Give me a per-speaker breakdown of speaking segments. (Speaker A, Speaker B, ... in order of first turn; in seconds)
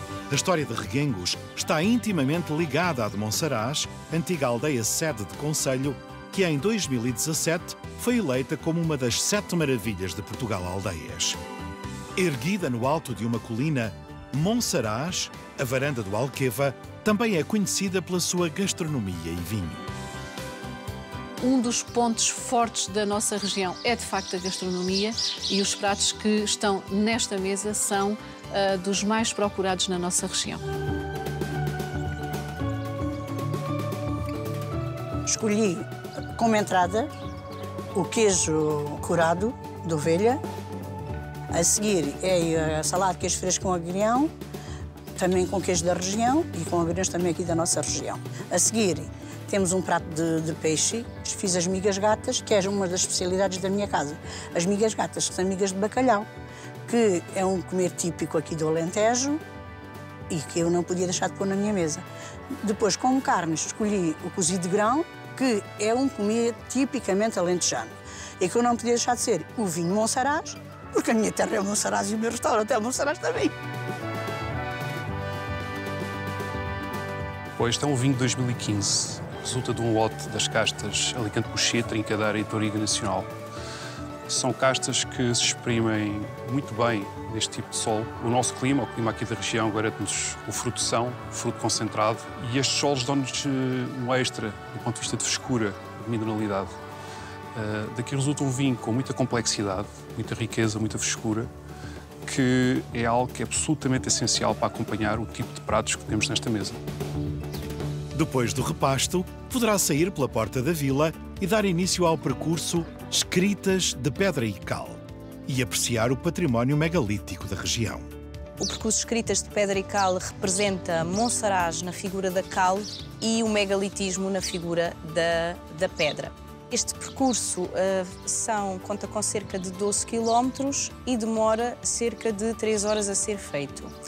Speaker A: 0.3-11.4, 12.2-19.9, 108.1-118.1
Speaker B: 21.4-30.6
Speaker C: 35.3-37.1, 37.9-40.4, 41.5-44.3, 45.2-56.3, 56.9-59.4, 60.3-62.0, 62.6-73.5
Speaker D: 77.6-83.3, 84.3-96.7, 97.5-101.5, 102.2-106.8
Speaker E: 118.6-133.9